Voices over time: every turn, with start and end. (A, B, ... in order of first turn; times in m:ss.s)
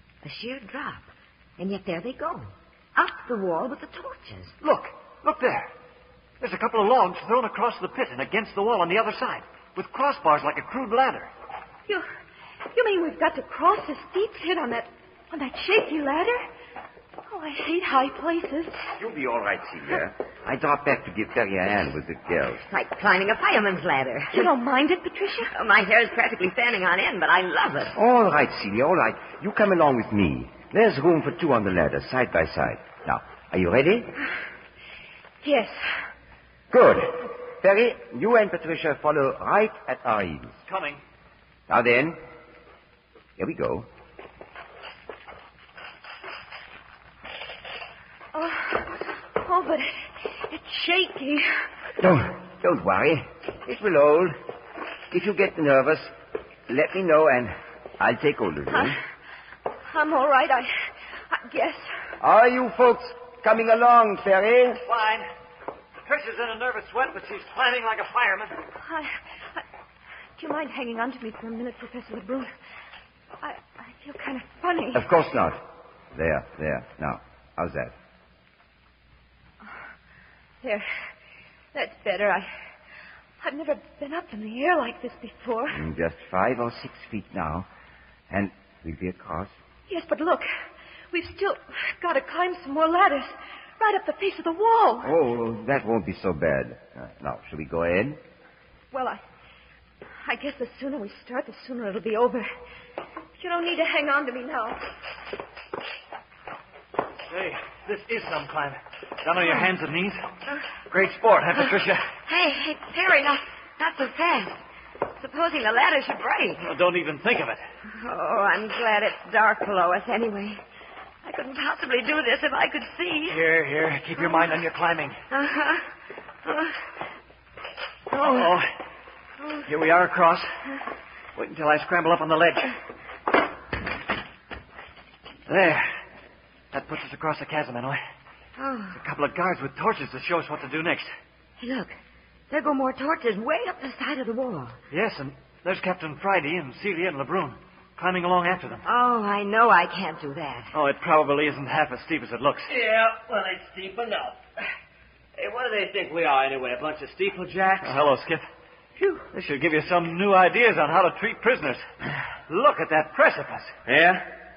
0:00.2-0:04.5 A
0:04.6-0:05.7 B
0:06.4-0:11.3 B
0:12.7-0:16.4 C
0:17.2-0:18.8 C
0:19.0-0:22.6 D
0:22.6-0:24.5 A
0:24.3-0:25.5 C
0:25.5-0:28.0 A
0:27.9-0:34.1 D
0:35.4-0:35.8 C
0:36.7-0:40.5 D
0:40.7-0:41.0 B
0:41.7-0:42.2 D
0:43.4-0:43.9 D
0:48.3-0:51.5 C
0:52.0-0:54.4 D
0:55.1-0:56.1 D
0:56.7-0:59.0 D
0:58.7-0:59.0 C
0:59.8-1:00.7 C
1:01.3-1:01.9 C
1:02.2-1:04.8 D
1:04.8-1:05.3 B
1:06.0-1:08.6 B
1:08.8-1:09.6 C
1:10.4-1:12.5 C
1:13.4-1:15.1 C
1:14.9-1:15.6 D
1:16.1-1:17.9 D
1:21.7-1:22.5 C
1:23.4-1:25.8 C
1:25.7-1:27.7 D
1:28.3-1:29.5 D
1:29.9-1:30.5 C
1:31.1-1:35.1 C
1:35.0-1:38.2 D
1:38.9-1:39.2 C
1:40.2-1:42.5 C
1:43.4-1:44.8 C
1:47.3-1:50.2 B
1:50.9-1:52.0 B
1:52.2-1:56.6 A
1:56.6-1:57.6 B
1:58.0-2:00.6 A
2:01.2-2:03.4 A
2:03.2-2:05.2 B
2:05.3-2:05.8 A
2:06.5-2:06.7 A
2:08.1-2:08.7 B
2:08.1-2:08.6 A
2:09.6-2:10.5 B
2:11.4-2:12.7 B
2:15.5-2:15.9 B
2:16.7-2:18.0 B
2:18.6-2:19.0 A
2:19.0-2:21.1 B
2:21.6-2:22.0 A
2:22.5-2:24.8 A
2:24.9-2:28.8 B
2:28.8-2:30.7 A
2:30.7-2:32.7 B
2:32.7-2:34.4 E
2:35.4-2:38.0 E
2:37.8-2:38.5 B
2:39.3-2:41.8 B
2:42.5-2:43.7 B
2:43.8-2:44.3 E